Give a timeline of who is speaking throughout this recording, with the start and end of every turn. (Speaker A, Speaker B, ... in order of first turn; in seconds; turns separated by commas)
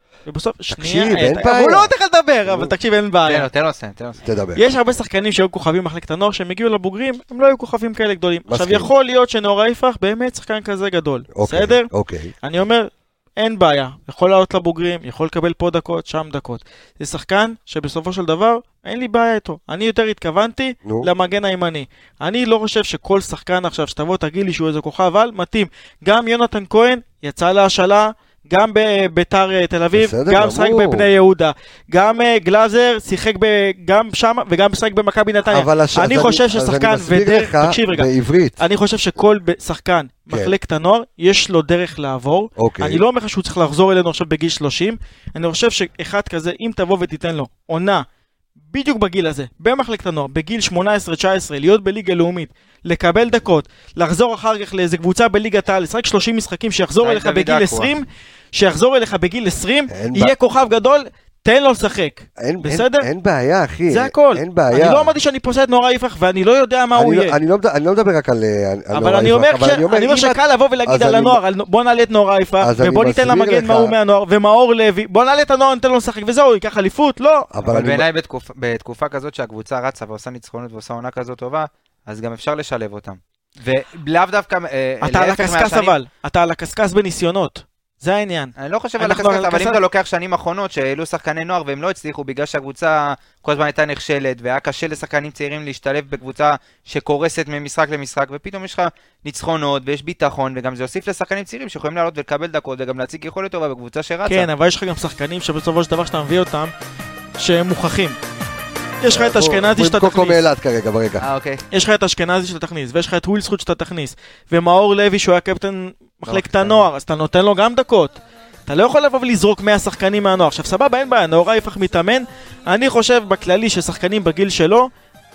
Speaker A: 0.3-3.5, Speaker B: 0.7-1.9, Speaker B: 2.5-2.7, Speaker C: 3.2-4.2, Speaker B: 4.2-4.6, Speaker A: 4.6-11.9, Speaker B: 8.5-8.9, Speaker B: 11.3-12.3, Speaker A: 12.4-38.1, Speaker B: 20.9-21.1, Speaker B: 29.9-31.1, Speaker B: 35.5-38.6, Speaker A: 38.6-48.0, Speaker B: 42.6-43.0, Speaker A: 48.7-63.1, Speaker C: 57.0-57.9, Speaker B: 59.9-60.3, Speaker B: 62.4-65.1, Speaker A: 63.9-67.4, Speaker B: 67.0-71.4, Speaker A: 68.9-77.5, Speaker B: 72.6-74.0, Speaker B: 77.5-78.1, Speaker C: 77.6-86.0, Speaker A: 85.0-89.8, Speaker C: 88.6-104.5, Speaker A: 104.3-106.7, Speaker A: 107.4-108.2, Speaker A: 109.0-110.4, Speaker B: 109.1-111.2, Speaker C: 111.2-111.6, Speaker A: 111.7-124.9, Speaker C: 116.2-116.9